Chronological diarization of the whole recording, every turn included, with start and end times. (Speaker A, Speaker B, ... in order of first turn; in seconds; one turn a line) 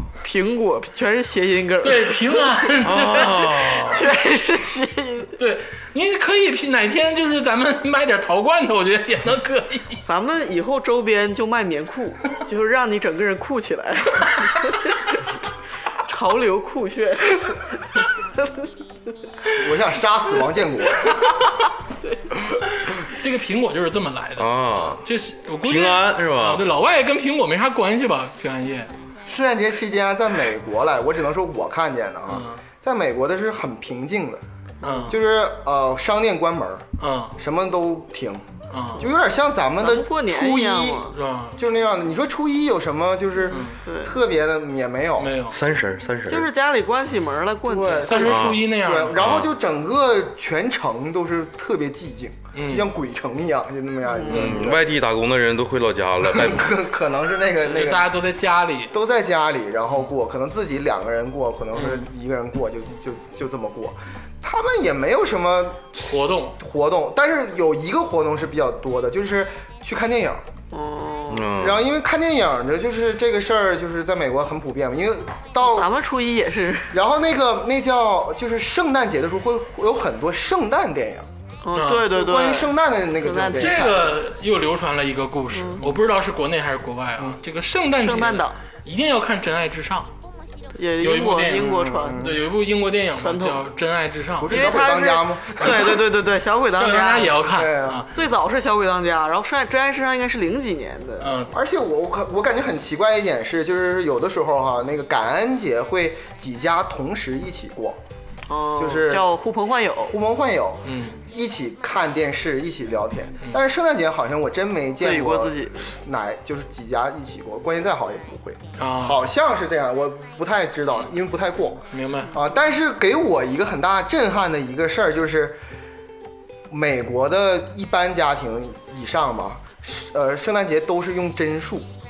Speaker A: 0.2-5.3
Speaker B: 1.8-4.0
Speaker C: 2.8-4.0
Speaker B: 5.4-10.0
Speaker A: 10.0-15.2
Speaker A: 16.0-18.5
Speaker D: 19.5-21.2
Speaker B: 22.8-28.9
Speaker C: 24.4-25.0
Speaker C: 25.6-26.6
Speaker D: 29.2-36.9
Speaker B: 32.3-32.6
Speaker B: 34.8-35.2
Speaker B: 37.0-37.4
Speaker D: 37.4-45.4
Speaker B: 38.7-39.0
Speaker A: 39.8-41.1
Speaker B: 41.1-41.6
Speaker B: 43.5-43.8
Speaker A: 43.8-44.1
Speaker B: 45.2-45.6
Speaker C: 45.5-46.5
Speaker A: 46.3-48.4
Speaker D: 47.6-54.9
Speaker B: 48.0-49.2
Speaker C: 48.2-48.6
Speaker C: 49.2-49.5
Speaker B: 52.5-52.9
Speaker A: 54.0-54.6
Speaker C: 54.3-56.7
Speaker D: 56.2-58.1
Speaker B: 57.7-58.9
Speaker D: 58.9-70.4
Speaker B: 61.7-62.0
Speaker B: 66.1-66.6
Speaker A: 70.7-71.5
Speaker C: 71.3-71.8
Speaker D: 71.5-75.9
Speaker A: 75.6-77.0
Speaker D: 76.9-81.2
Speaker A: 81.6-84.1
Speaker B: 81.7-82.1
Speaker D: 82.0-84.1
Speaker B: 83.5-90.1
Speaker A: 85.5-85.8
Speaker A: 88.0-88.6
Speaker A: 90.7-92.3
Speaker B: 91.0-94.6
Speaker D: 91.5-92.5
Speaker A: 93.2-93.6
Speaker D: 94.4-96.0
Speaker A: 94.5-97.4
Speaker B: 95.6-95.9
Speaker B: 96.7-98.1
Speaker D: 97.5-98.1
Speaker A: 98.1-101.3
Speaker B: 101.2-101.5
Speaker D: 101.5-108.0
Speaker A: 108.5-110.1
Speaker D: 108.8-109.3
Speaker D: 110.0-125.6
Speaker B: 110.8-111.2
Speaker A: 115.0-115.9
Speaker B: 118.8-119.2
Speaker B: 121.9-122.3
Speaker D: 126.7-131.9